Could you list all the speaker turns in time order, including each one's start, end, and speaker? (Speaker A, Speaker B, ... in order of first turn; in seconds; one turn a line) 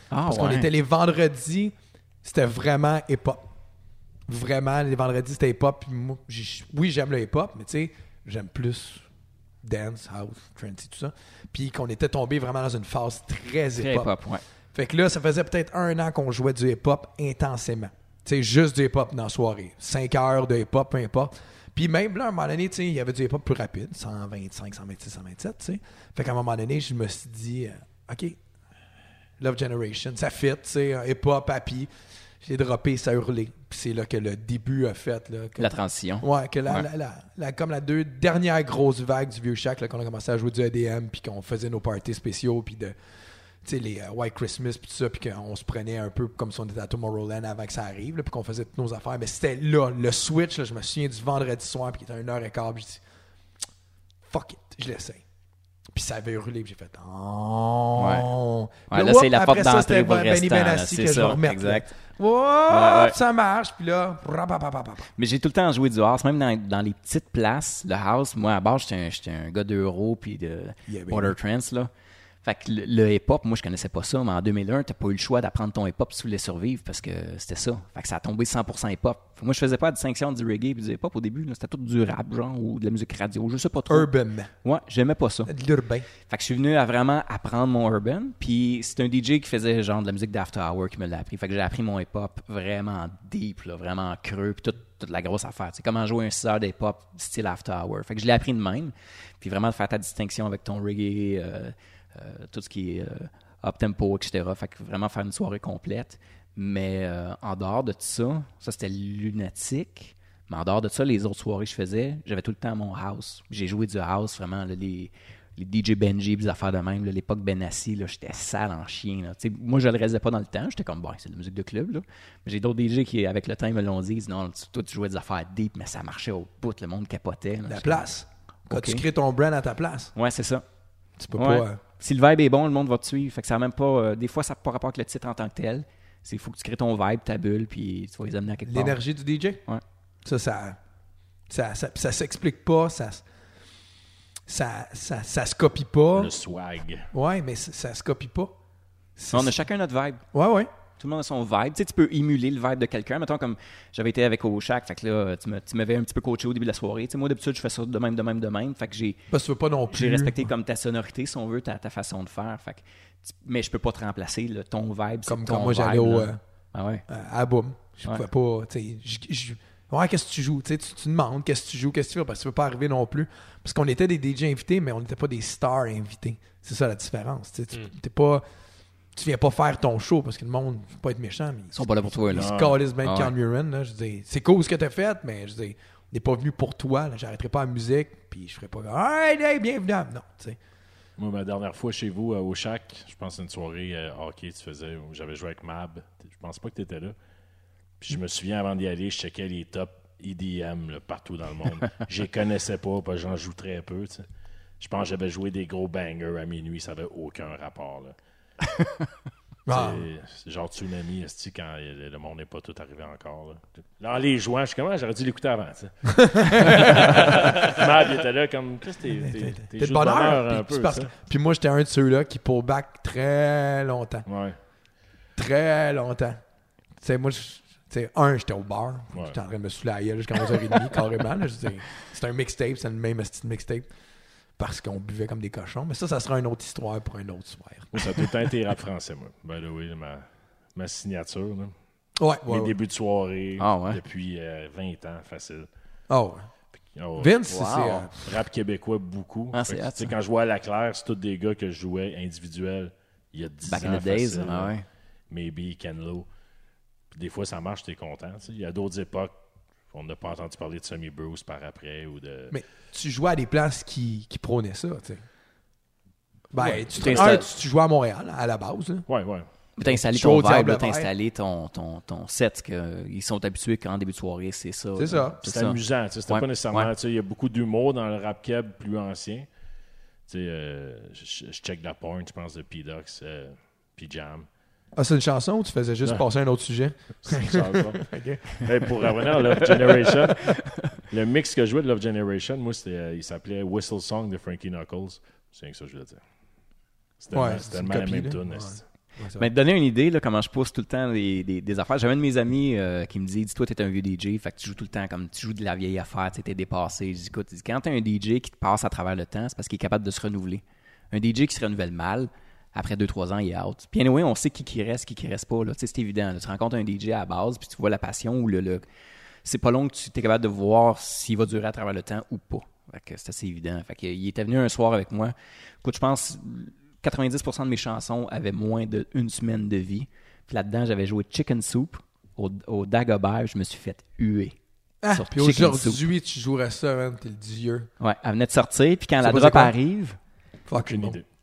Speaker A: 0.1-0.7
Speaker B: 0.2-3.4
Speaker B: 4.3-9.0
Speaker B: 9.6-14.1
Speaker A: 13.8-14.4
Speaker B: 14.7-28.4
Speaker B: 29.4-31.9
Speaker B: 32.4-42.9
Speaker A: 35.6-36.9
Speaker B: 43.6-53.0
Speaker B: 54.3-55.2
Speaker B: 55.9-65.1
Speaker A: 58.0-58.3
Speaker A: 58.9-61.9
Speaker A: 62.7-63.2
Speaker A: 65.2-71.9
Speaker B: 70.9-71.4
Speaker A: 72.4-84.1
Speaker B: 83.9-84.5
Speaker A: 84.6-85.5
Speaker B: 85.5-86.1
Speaker A: 86.3-128.1
Speaker B: 127.7-130.1
Speaker A: 128.7-129.0
Speaker A: 130.2-130.7
Speaker B: 131.2-131.8
Speaker A: 131.3-139.0
Speaker B: 138.7-139.6
Speaker B: 140.2-140.8
Speaker B: 141.5-143.2
Speaker B: 144.5-146.3
Speaker C: 146.2-147.1
Speaker B: 147.1-148.5
Speaker B: 149.2-149.6
Speaker A: 149.3-150.2
Speaker B: 150.3-150.7
Speaker A: 151.0-159.2
Speaker B: 159.3-160.5
Speaker A: 159.9-167.1
Speaker B: 165.3-166.4
Speaker B: 167.1-178.4
Speaker B: 179.2-190.6
Speaker A: 181.7-183.3
Speaker C: 182.3-182.8
Speaker C: 191.2-197.2
Speaker C: 198.0-204.3
Speaker C: 204.8-208.2
Speaker A: 208.8-209.1
Speaker B: 209.7-210.1
Speaker C: 209.7-221.1
Speaker B: 216.1-217.4
Speaker B: 219.2-224.3
Speaker C: 224.3-224.6
Speaker B: 225.4-226.4
Speaker B: 227.0-233.9
Speaker B: 234.6-238.3
Speaker C: 237.9-241.7
Speaker B: 242.2-242.7
Speaker C: 242.5-245.7
Speaker A: 243.6-244.0
Speaker B: 246.1-246.5
Speaker C: 246.9-247.4
Speaker B: 247.2-248.1
Speaker A: 247.5-248.1
Speaker C: 248.2-254.7
Speaker A: 249.5-250.1
Speaker A: 253.7-254.9
Speaker C: 255.3-256.3
Speaker C: 257.1-259.3
Speaker C: 259.9-262.6
Speaker B: 262.5-265.2
Speaker B: 266.5-269.1
Speaker C: 266.6-267.4
Speaker A: 266.6-267.4
Speaker C: 269.1-269.5
Speaker A: 269.8-276.9
Speaker B: 269.8-271.1
Speaker B: 274.9-275.4
Speaker C: 275.4-279.5
Speaker C: 280.3-284.5
Speaker B: 284.9-289.1
Speaker C: 287.2-290.6
Speaker C: 291.1-296.2
Speaker C: 297.2-298.8
Speaker B: 297.3-299.5
Speaker A: 299.4-318.9
Speaker A: 319.4-334.6
Speaker B: 335.0-337.9
Speaker A: 335.1-336.0
Speaker A: 338.0-340.2
Speaker B: 339.2-339.7
Speaker B: 340.7-341.2
Speaker C: 340.7-341.2